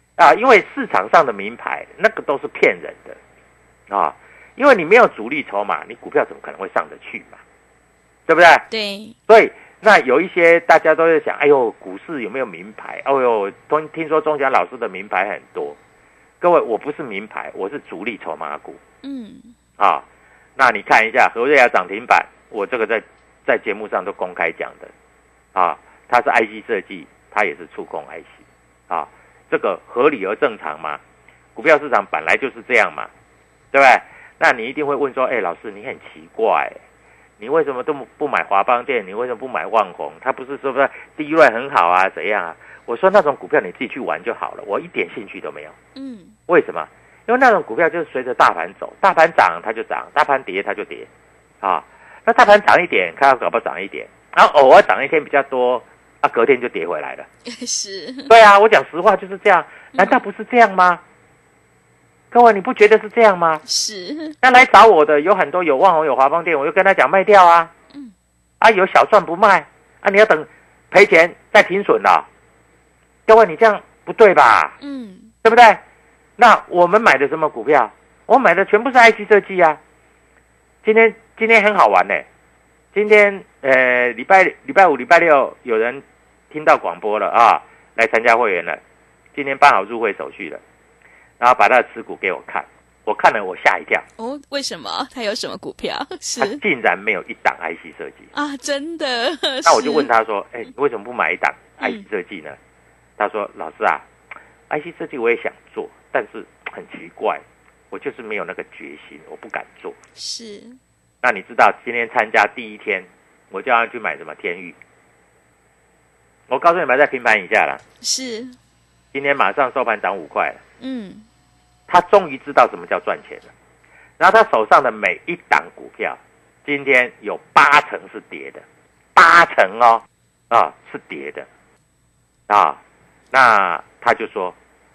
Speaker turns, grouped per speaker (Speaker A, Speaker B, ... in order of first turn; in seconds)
Speaker A: 0.2-3.2, 3.9-7.4, 8.3-8.7, 9.3-15.8, 16.4-18.8, 19.8-20.1, 20.6-24.9, 25.5-31.0, 31.6-33.1, 33.7-36.8, 37.4-45.8, 46.5-51.1, 51.6-57.3, 58.3-61.0, 62.3-63.6, 64.4-67.7, 68.6-72.3, 73.3-74.8, 75.4-75.8, 76.4-79.8, 80.8-82.3, 82.9-88.8, 89.3-90.6, 91.4-94.0, 96.4-98.3, 99.7-102.6, 103.2-104.1, 104.7-110.0, 111.2-114.8, 116.5-117.8, 119.1-120.6, 121.9-123.5, 124.2-128.6, 129.2-131.5, 132.5-132.8, 133.3-134.6
Speaker B: 8.7-9.2, 19.0-19.5, 46.0-46.4, 57.5-58.3, 60.0-60.2, 63.7-64.3, 74.8-75.3, 94.2-96.6, 98.3-100.1, 110.2-110.8, 118.0-118.6, 120.8-121.2